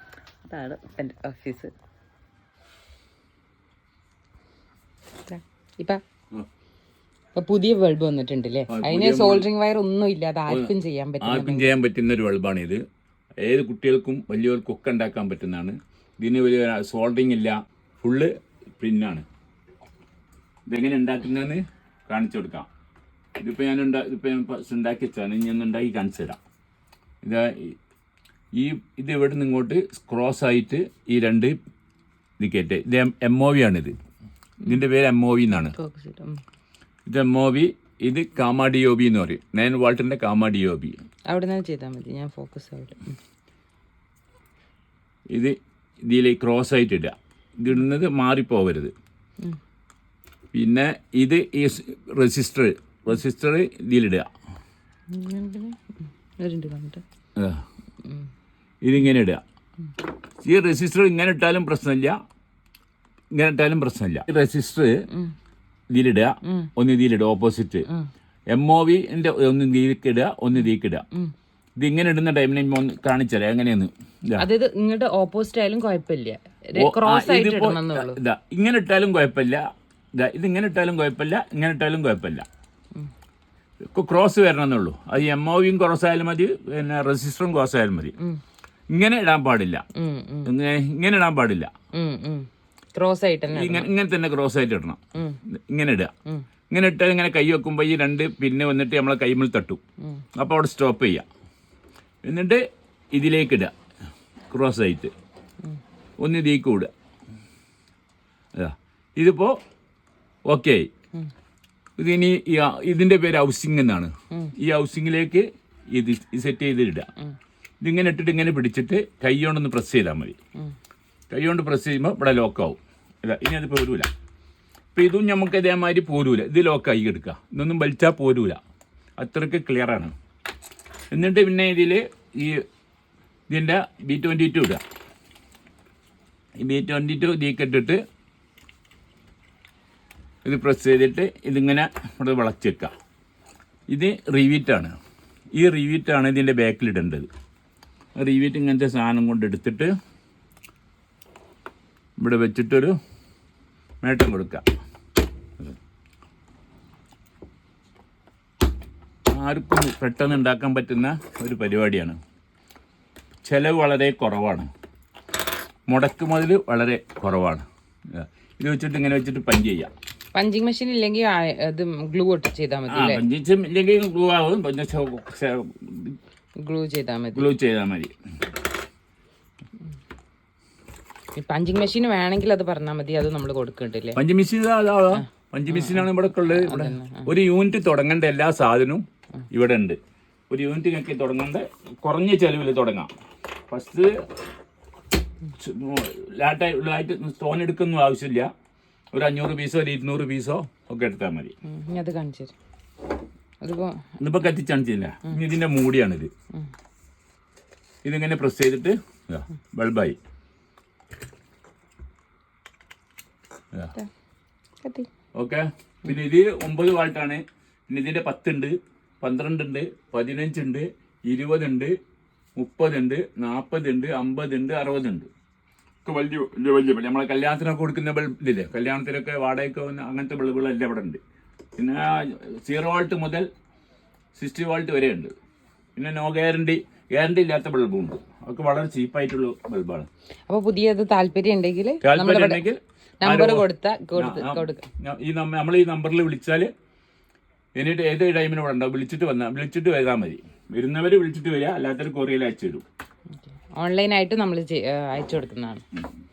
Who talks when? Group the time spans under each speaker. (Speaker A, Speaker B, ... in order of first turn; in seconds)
Speaker A: 0.4-1.7, 5.3-6.0, 7.3-11.7, 35.7-36.4, 41.3-43.2, 55.1-57.0, 66.4-66.7, 74.4-78.2, 90.0-90.5, 91.9-93.9, 95.2-95.4, 170.3-173.2, 176.6-177.5, 181.4-184.2, 185.1-187.3, 201.7-202.5, 203.6-204.1, 214.8-215.1, 240.5-242.6, 243.2-244.8, 253.8-255.8
Speaker B: 8.7-9.5, 10.5-12.8, 13.4-19.2, 20.7-22.7, 23.4-26.4, 27.2-27.8, 28.5-31.6, 32.4-33.9, 34.6-35.8, 37.1-41.0, 45.3-48.9, 50.5-54.3, 57.4-57.6, 58.8-59.4, 60.4-62.2, 63.3-65.0, 65.9-67.9, 68.5-71.0, 71.8-74.5, 76.8-79.7, 80.2-82.5, 83.9-88.2, 88.9-89.8, 90.5-91.7, 93.5-96.1, 96.7-99.8, 100.3-101.2, 102.2-103.7, 104.5-105.1, 106.2-106.9, 108.5-109.6, 110.5-110.9, 112.0-117.1, 117.8-120.4, 121.3-124.1, 125.0-128.6, 129.2-130.1, 131.1-132.6, 133.5-134.8, 136.6-138.0, 140.4-142.9, 143.9-144.9, 145.5-147.3, 148.2-149.9, 152.2-152.9, 154.0-154.7, 159.3-162.2, 163.4-164.7, 165.9-169.9, 172.9-176.2, 177.3-178.2, 184.2-190.0, 190.5-193.1, 193.7-194.2, 195.6-198.5, 199.1-201.5, 204.2-206.3, 208.0-210.2, 215.3-221.9, 222.6-225.3, 226.1-231.2, 231.8-233.5, 234.3-235.3, 236.0-240.1, 242.0-246.7, 247.8-252.8